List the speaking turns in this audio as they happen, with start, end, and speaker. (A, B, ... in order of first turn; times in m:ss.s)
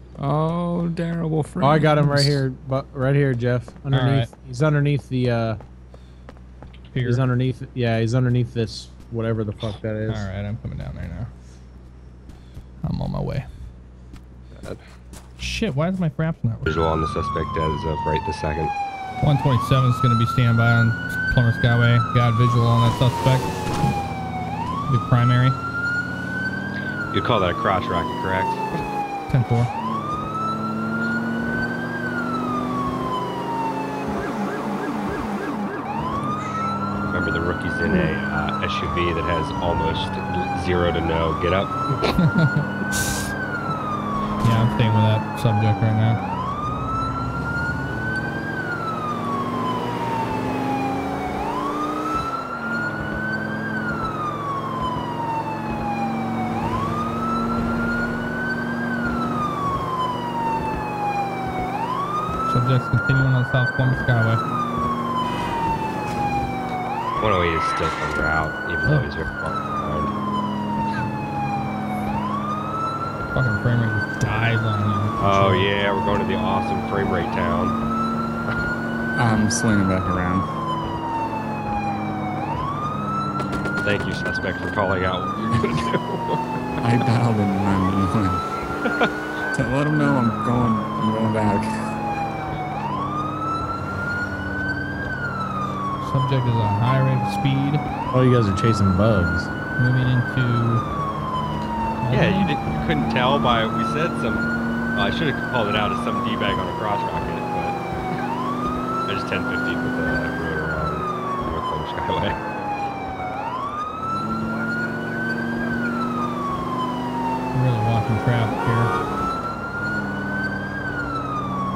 0:00.2-0:02.4 A
0:01.6-0:05.6 B
0:03.9-0:04.3 C
0:06.9-0:07.2 C
0:07.0-0:10.3 B
0:10.1-0:11.3 C
0:12.8-0:13.5 C
0:15.4-0:16.8 C
0:16.6-0:18.7 D
0:19.2-0:23.6 C
0:24.9-0:25.6 C
0:27.1-0:28.6 D
0:29.3-0:29.7 C
0:36.2-0:36.6 A
0:37.1-0:42.0 D
0:42.2-0:43.2 C
0:44.4-0:46.2 C
1:02.5-1:04.4 C
1:07.2-1:10.1 D
1:13.3-1:15.7 C
1:15.2-1:17.8 D
1:19.1-1:20.5 A
1:23.8-1:26.4 D
1:26.8-1:28.5 A
1:29.5-1:31.7 A
1:36.0-1:37.8 C
1:38.1-1:39.5 B
1:39.8-1:40.8 C
1:42.0-1:42.5 C
1:42.1-1:47.8 D
1:49.1-1:52.4 D
1:57.5-1:58.9 C